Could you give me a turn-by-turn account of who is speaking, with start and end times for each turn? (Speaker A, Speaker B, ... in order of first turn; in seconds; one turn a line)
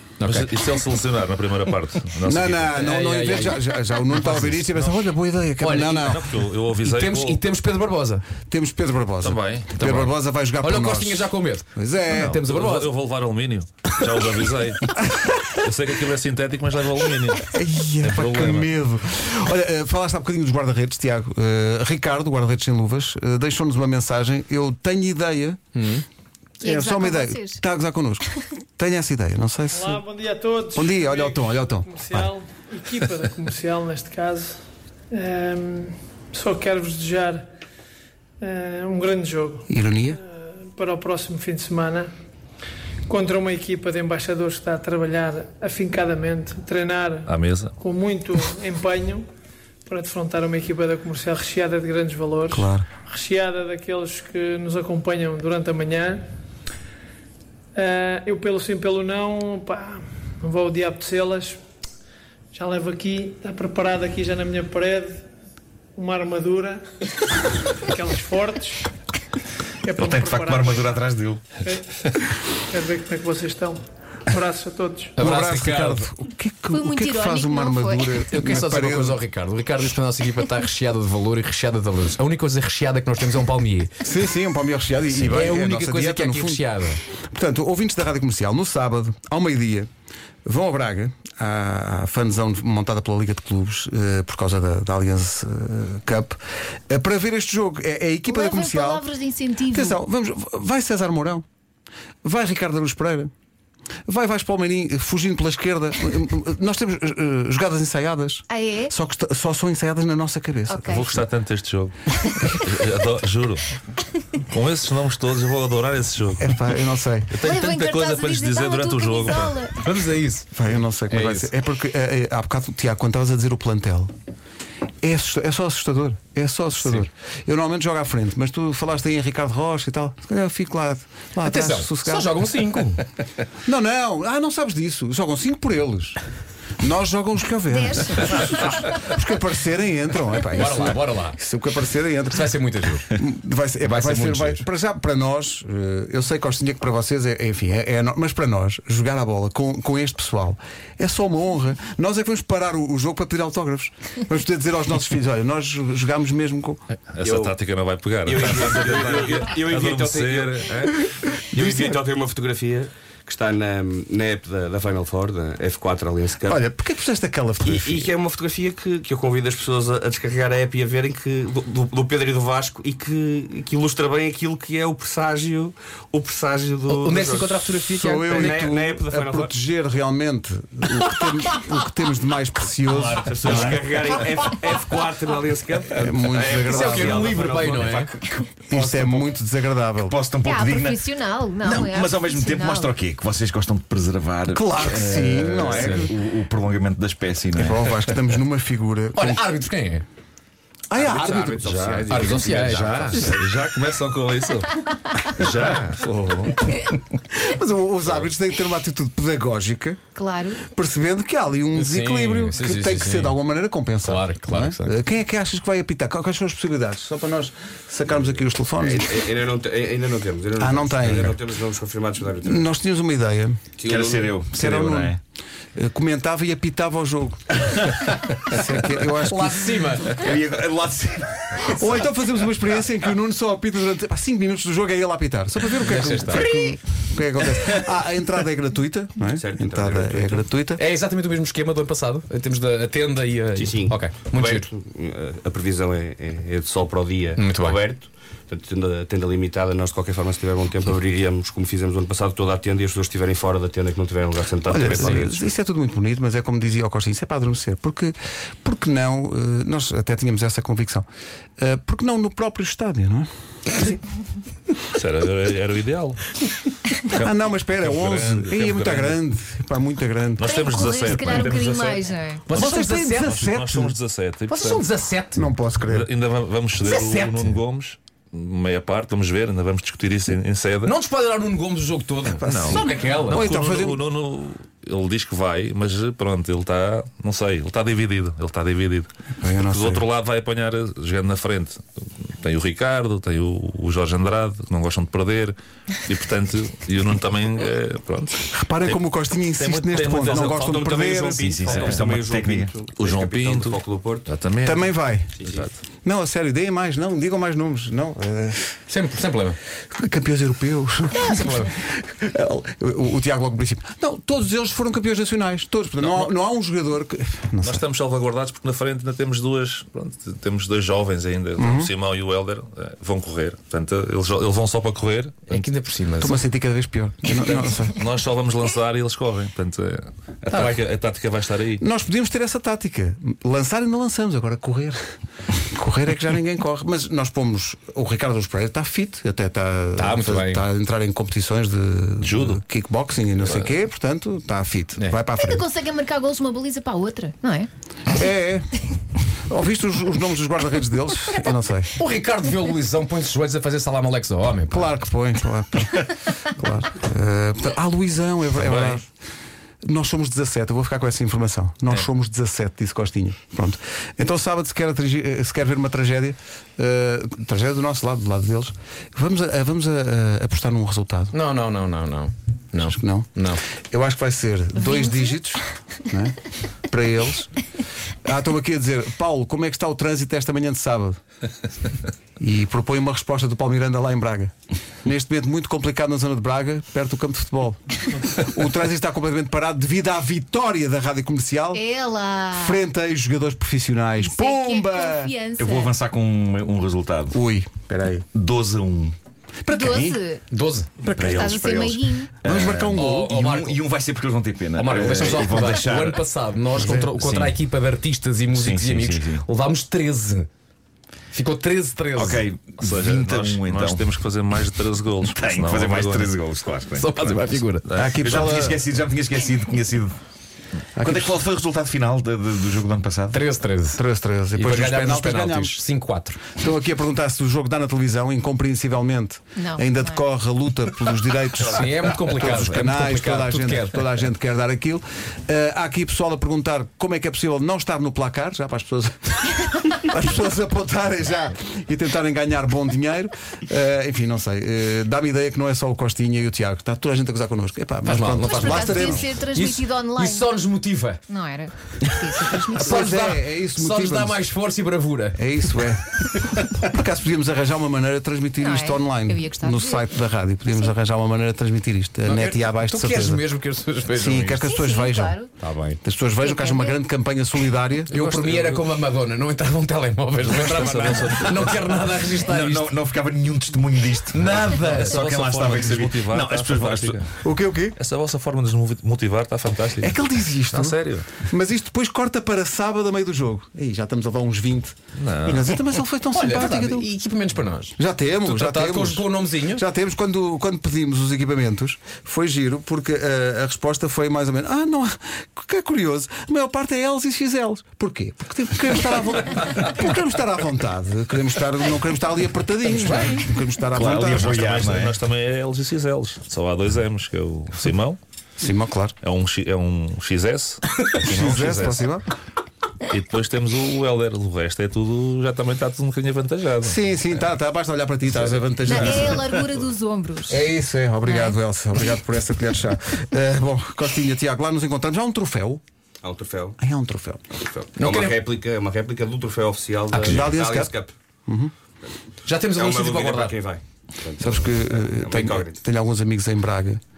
Speaker A: 0.2-0.5
Speaker B: 0.2-2.8
Speaker C: 2.2-6.3
Speaker A: 2.7-4.7
Speaker A: 5.6-6.1
Speaker B: 6.0-7.4
Speaker A: 6.8-8.2
Speaker C: 8.5-12.4
Speaker B: 9.2-9.8
Speaker A: 9.8-12.9
Speaker B: 12.3-18.6
Speaker C: 17.5-25.6
Speaker A: 18.2-18.6
Speaker A: 25.8-26.0
Speaker D: 26.6-27.6
Speaker C: 26.6-28.2
Speaker C: 28.8-30.0
Speaker E: 29.7-34.6
Speaker C: 30.8-32.3
Speaker E: 35.1-37.5
Speaker E: 38.4-39.7
Speaker C: 39.7-40.2
Speaker E: 40.6-42.1
Speaker E: 43.1-49.2
Speaker B: 47.3-47.7
Speaker E: 49.9-56.2
Speaker C: 52.5-52.9
Speaker E: 57.8-61.6
Speaker E: 62.5-65.2
Speaker E: 66.0-66.8
Speaker E: 67.9-68.9
Speaker E: 69.8-71.1
Speaker F: 70.0-71.5
Speaker E: 71.6-75.1
Speaker A: 75.2-76.1
Speaker C: 75.2-79.2
Speaker D: 76.7-78.2
Speaker A: 78.3-83.9
Speaker C: 84.0-86.6
Speaker A: 85.1-87.0
Speaker C: 87.3-89.9
Speaker C: 90.5-99.0
Speaker D: 98.3-100.0
Speaker C: 99.7-101.5
Speaker C: 102.2-103.3
Speaker C: 104.1-111.2
Speaker D: 108.5-108.9
Speaker D: 110.7-111.1
Speaker B: 110.9-112.0
Speaker D: 112.1-112.5
Speaker B: 112.5-113.7
Speaker B: 114.5-116.5
Speaker C: 116.4-117.3
Speaker B: 117.3-119.6
Speaker D: 117.4-119.8
Speaker A: 119.8-120.5
Speaker C: 120.5-124.1
Speaker A: 121.1-121.5
Speaker C: 125.0-132.3
Speaker A: 131.4-133.1
Speaker C: 133.7-136.2
Speaker C: 136.8-142.5
Speaker D: 137.7-139.1
Speaker A: 140.5-141.4
Speaker A: 142.3-143.1
Speaker C: 143.1-156.8
Speaker A: 143.8-144.6
Speaker B: 157.1-160.9
Speaker G: 157.2-157.6
Speaker G: 158.2-161.0
Speaker C: 161.5-162.0
Speaker G: 161.5-166.6
Speaker C: 166.4-168.1
Speaker G: 167.6-177.6
Speaker A: 176.9-178.7
Speaker C: 177.9-183.9
Speaker G: 178.3-179.5
Speaker F: 182.9-183.9
Speaker G: 183.0-188.2
Speaker C: 185.9-187.4
Speaker A: 186.6-188.1
Speaker F: 187.8-189.0
Speaker C: 188.7-190.2
Speaker G: 188.9-189.3
Speaker F: 190.0-198.1
Speaker D: 190.4-193.0
Speaker C: 194.5-196.1
Speaker A: 195.7-196.1
Speaker C: 197.5-199.4
Speaker A: 199.2-200.1
Speaker C: 200.9-201.6
Speaker G: 200.9-203.4
Speaker B: 201.6-202.5
Speaker A: 202.1-203.3
Speaker B: 203.2-206.0
Speaker C: 205.6-210.0
Speaker D: 210.2-210.6
Speaker C: 210.6-219.2
Speaker A: 211.7-213.4
Speaker A: 214.0-214.9
Speaker G: 218.8-222.7
Speaker C: 220.6-221.4
Speaker C: 222.4-223.6
Speaker G: 223.8-224.4
Speaker F: 223.8-225.2
Speaker C: 224.5-225.2
Speaker C: 225.8-229.8
Speaker A: 229.2-230.2
Speaker F: 230.1-232.1
Speaker C: 231.7-240.8
Speaker A: 235.8-236.5
Speaker G: 239.3-240.4
Speaker A: 240.8-244.7
Speaker G: 243.6-255.4
Speaker A: 247.4-247.8
Speaker C: 254.7-261.1
Speaker A: 254.8-255.3
Speaker C: 261.6-264.0
Speaker B: 264.9-266.2
Speaker B: 267.0-269.2
Speaker C: 267.2-270.5
Speaker B: 270.4-274.8
Speaker D: 270.4-272.4
Speaker A: 272.5-273.3
Speaker C: 272.5-274.0
Speaker A: 274.5-275.5
Speaker C: 275.3-276.1
Speaker B: 275.8-280.9
Speaker A: 276.8-277.6
Speaker A: 280.8-283.5
Speaker C: 282.4-284.0
Speaker F: 282.5-282.8
Speaker B: 282.5-289.1
Speaker C: 289.4-290.1
Speaker B: 289.7-291.8
Speaker B: 292.4-299.0
Speaker C: 298.5-301.6
Speaker B: 299.6-300.7
Speaker G: 300.1-304.3
Speaker F: 301.4-302.7
Speaker B: 301.7-302.1
Speaker B: 302.9-305.8
Speaker C: 304.6-305.4
Speaker G: 305.4-305.7
Speaker C: 306.0-308.8
Speaker A: 308.9-309.6
Speaker C: 309.9-317.8
Speaker A: 311.2-311.7
Speaker B: 317.6-325.7
Speaker C: 321.6-321.9
Speaker A: 325.5-326.4
Speaker C: 326.2-328.0
Speaker B: 327.9-331.8
Speaker A: 330.5-330.8
Speaker C: 331.8-335.0
Speaker C: 335.7-345.6
Speaker A: 340.0-340.6
Speaker B: 342.2-342.6
Speaker B: 343.4-343.7
Speaker D: 345.4-347.7
Speaker C: 348.1-348.7
Speaker C: 349.5-351.9
Speaker A: 351.9-354.9
Speaker C: 354.7-359.1
Speaker B: 358.6-359.0
Speaker C: 359.8-371.4
Speaker A: 371.3-373.6
Speaker C: 372.8-373.3
Speaker C: 373.9-376.4
Speaker D: 374.8-375.4
Speaker C: 376.9-377.5
Speaker C: 378.2-381.2
Speaker C: 382.4-384.5
Speaker C: 385.1-391.8
Speaker D: 391.7-392.8
Speaker C: 392.6-395.3
Speaker D: 394.2-396.0
Speaker F: 395.5-397.4
Speaker C: 397.3-398.3
Speaker F: 398.3-399.2
Speaker C: 399.6-400.2
Speaker D: 399.7-400.4
Speaker A: 400.5-400.9
Speaker C: 401.0-401.4
Speaker F: 401.0-406.2
Speaker D: 401.2-402.3
Speaker C: 402.4-403.4
Speaker A: 402.9-403.8
Speaker A: 404.8-410.5
Speaker C: 406.8-407.1
Speaker F: 407.2-407.6
Speaker F: 408.5-409.4
Speaker A: 411.3-412.5
Speaker F: 412.1-414.1
Speaker B: 412.8-416.4
Speaker F: 415.3-417.1
Speaker A: 417.0-417.9
Speaker B: 417.9-418.3
Speaker C: 418.0-418.8
Speaker F: 418.0-420.2
Speaker C: 421.0-421.4
Speaker F: 421.0-423.4
Speaker A: 423.3-424.0
Speaker C: 423.9-425.8
Speaker A: 424.5-426.4
Speaker C: 426.5-449.3
Speaker D: 429.6-430.2
Speaker A: 431.6-434.1
Speaker A: 448.0-451.2
Speaker D: 448.5-450.5
Speaker D: 451.3-453.1
Speaker A: 452.8-455.4
Speaker C: 452.8-454.4
Speaker C: 455.4-463.4
Speaker D: 458.6-460.1
Speaker A: 462.2-464.7
Speaker C: 464.1-465.4
Speaker D: 464.7-465.5
Speaker A: 465.6-466.0
Speaker C: 466.0-468.6
Speaker D: 466.4-467.0
Speaker A: 468.1-472.9
Speaker B: 468.4-468.8
Speaker B: 470.4-472.8
Speaker F: 472.6-477.2
Speaker A: 474.4-475.2
Speaker B: 474.4-477.3
Speaker C: 477.4-478.0
Speaker B: 478.0-480.2
Speaker C: 480.0-487.1
Speaker B: 480.7-481.4
Speaker B: 485.1-485.8
Speaker A: 486.3-489.9
Speaker C: 488.0-504.6
Speaker A: 502.9-503.4
Speaker F: 503.9-505.2
Speaker B: 504.1-508.2
Speaker C: 508.6-509.1
Speaker B: 509.2-512.0
Speaker C: 511.2-512.3
Speaker B: 513.1-517.0
Speaker C: 516.8-519.5
Speaker D: 518.8-520.6
Speaker C: 520.5-525.8
Speaker D: 521.2-521.6
Speaker G: 526.2-526.8
Speaker C: 526.8-527.5
Speaker G: 527.6-531.1
Speaker A: 528.0-528.4
Speaker C: 530.1-530.9
Speaker C: 531.5-531.7
Speaker A: 532.5-533.6
Speaker G: 532.7-535.8
Speaker C: 534.4-537.0